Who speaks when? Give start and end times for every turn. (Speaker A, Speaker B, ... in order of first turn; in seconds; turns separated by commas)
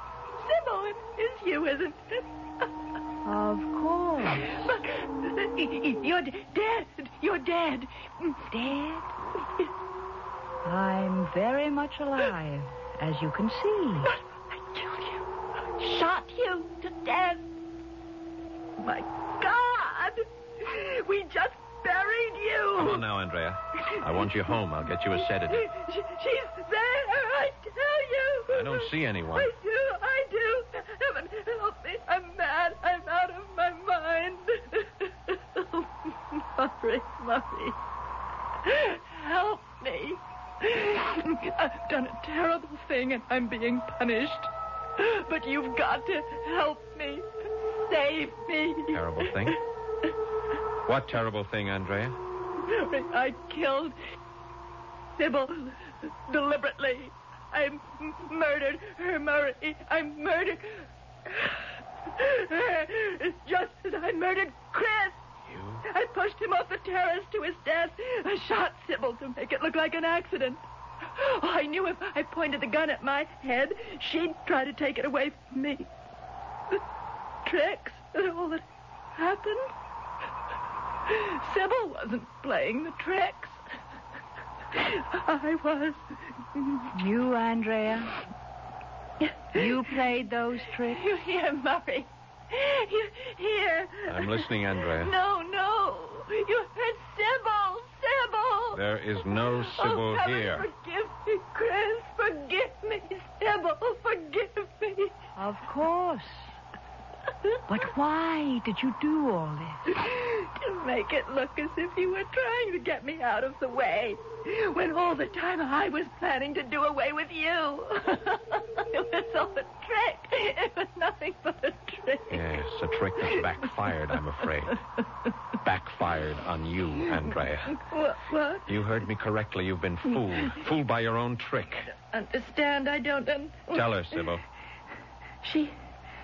Speaker A: 0.4-2.7, Speaker B: 3.2-4.6, Speaker A: 4.4-8.5, Speaker B: 8.5-9.1, Speaker A: 9.3-9.7, Speaker B: 10.6-14.1, Speaker A: 14.1-17.5, Speaker A: 18.8-23.0, Speaker C: 22.8-25.7, Speaker A: 25.5-37.8, Speaker C: 28.5-29.5, Speaker A: 38.6-49.6, Speaker C: 48.9-49.6, Speaker C: 50.9-52.2, Speaker A: 52.6-54.0, Speaker A: 55.2-61.6, Speaker A: 62.1-65.2, Speaker C: 65.5-65.8, Speaker A: 65.8-75.9, Speaker A: 77.5-78.6, Speaker A: 79.2-79.7, Speaker A: 81.1-83.6, Speaker A: 84.7-86.0, Speaker A: 86.5-86.9, Speaker B: 86.9-88.1, Speaker A: 89.2-89.6, Speaker B: 89.5-91.0, Speaker A: 90.9-98.8, Speaker C: 94.1-95.1, Speaker C: 98.7-100.7, Speaker A: 99.4-105.1, Speaker B: 105.4-106.5, Speaker B: 107.7-109.9, Speaker A: 109.9-122.6, Speaker C: 122.3-124.8, Speaker C: 125.6-127.8, Speaker A: 127.7-128.7, Speaker C: 128.7-131.9, Speaker A: 132.1-133.8, Speaker C: 133.7-134.4, Speaker A: 135.4-135.7